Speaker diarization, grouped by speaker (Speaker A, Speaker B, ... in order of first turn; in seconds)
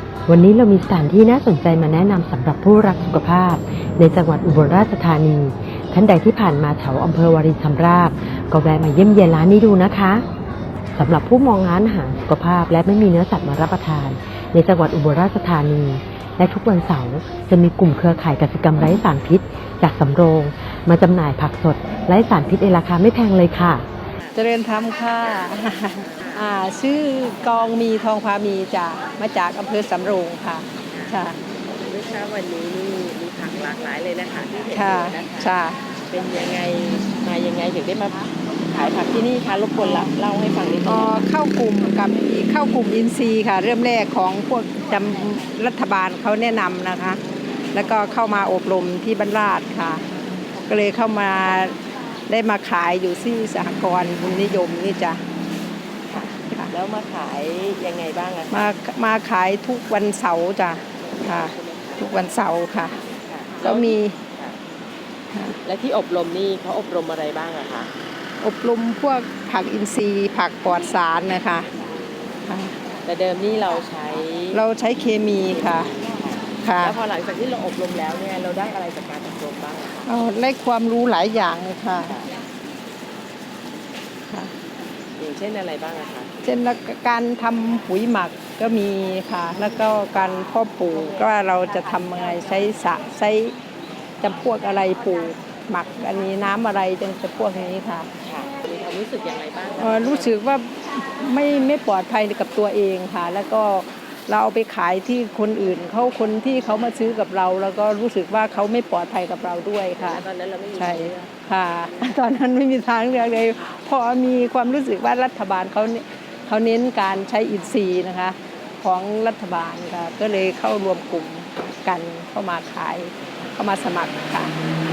Speaker A: 0.3-10.3, 10.9-23.9
Speaker B: 24.4-31.4, 34.7-35.8, 40.9-47.2, 47.7-50.0, 50.6-55.2, 58.5-63.0, 63.6-64.2, 68.4-71.7, 72.5-72.8, 74.5-75.9, 76.6-77.0, 80.1-82.2, 86.4-93.6, 94.2-98.1, 99.8-110.2, 110.8-124.5
Speaker C: 26.0-26.5, 30.9-31.2, 31.8-35.5, 36.1-41.3, 56.1-58.7, 61.2-62.1, 63.3-64.6, 65.6-67.9, 73.0-74.6, 75.7-80.1, 85.2-86.3, 98.2-100.4, 110.0-111.5